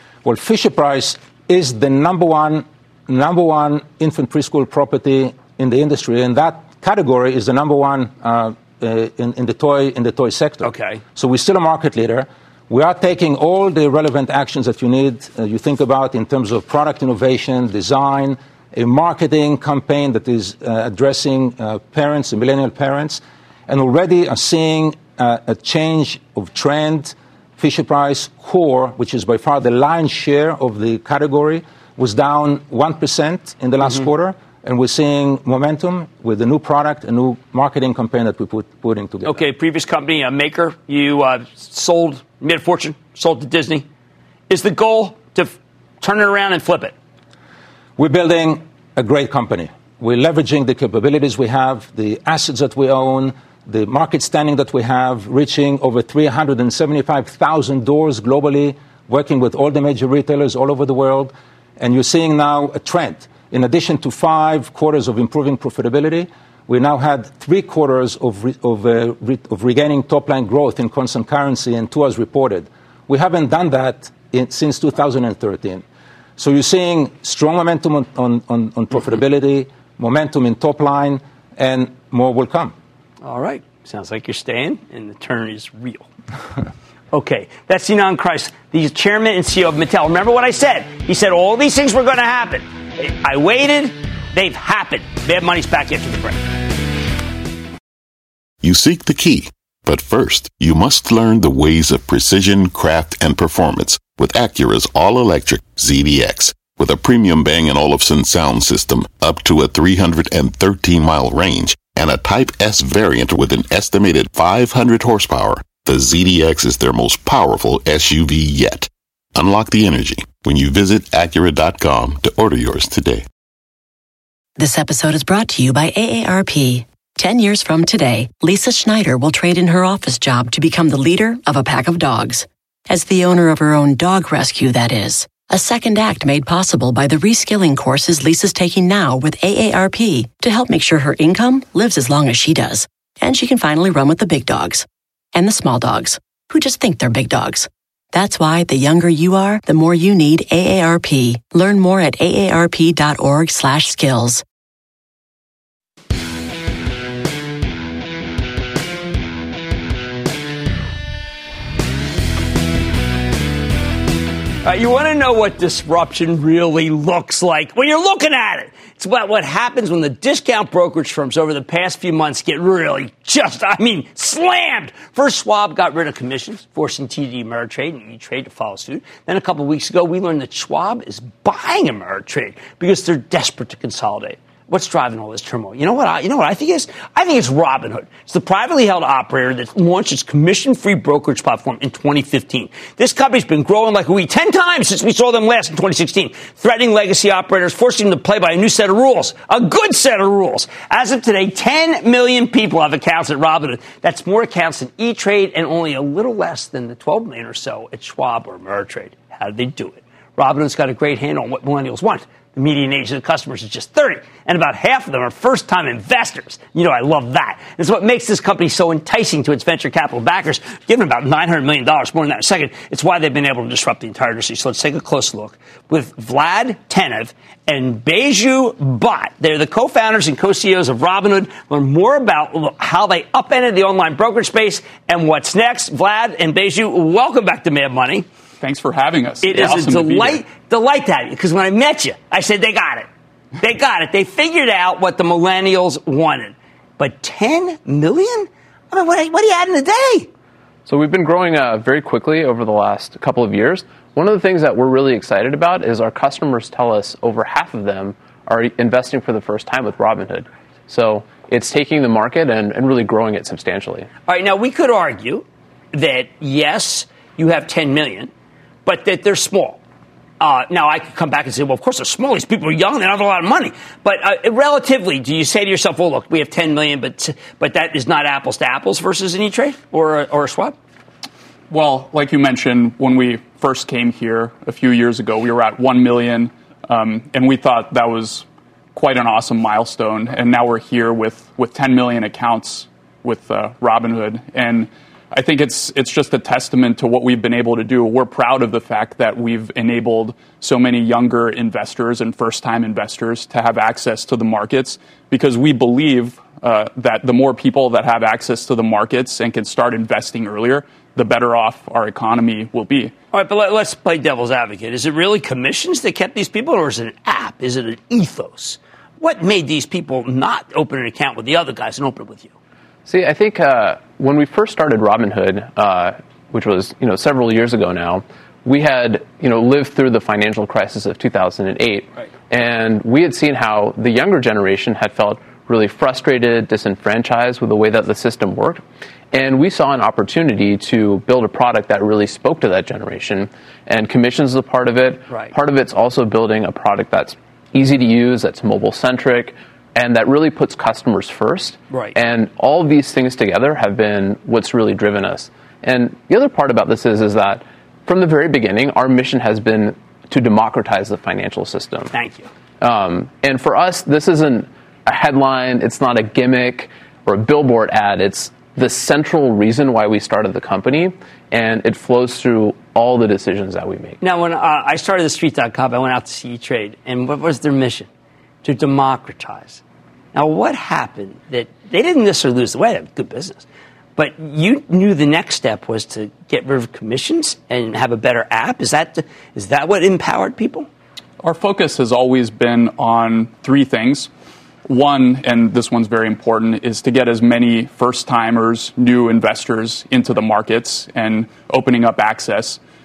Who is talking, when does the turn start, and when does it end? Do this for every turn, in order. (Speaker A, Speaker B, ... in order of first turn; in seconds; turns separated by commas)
Speaker A: 0.2-39.4, Speaker B: 10.6-11.0, Speaker B: 39.2-43.9, Speaker B: 44.5-46.9, Speaker A: 48.0-75.8, Speaker A: 76.4-82.7, Speaker B: 83.2-86.1, Speaker B: 87.1-96.4, Speaker C: 98.6-123.2, Speaker D: 124.6-154.4, Speaker B: 164.6-238.3, Speaker E: 238.6-240.4, Speaker B: 239.4-243.1, Speaker B: 243.6-250.3, Speaker F: 250.9-264.1, Speaker B: 264.3-268.3, Speaker B: 268.9-269.8, Speaker B: 270.4-280.8, Speaker E: 281.7-313.1, Speaker B: 313.3-322.5, Speaker F: 323.1-362.1, Speaker B: 351.9-352.2, Speaker B: 362.1-362.5, Speaker F: 362.8-374.2, Speaker B: 374.2-378.1, Speaker B: 378.6-379.8, Speaker B: 380.3-390.9, Speaker E: 391.4-394.3, Speaker E: 394.9-402.8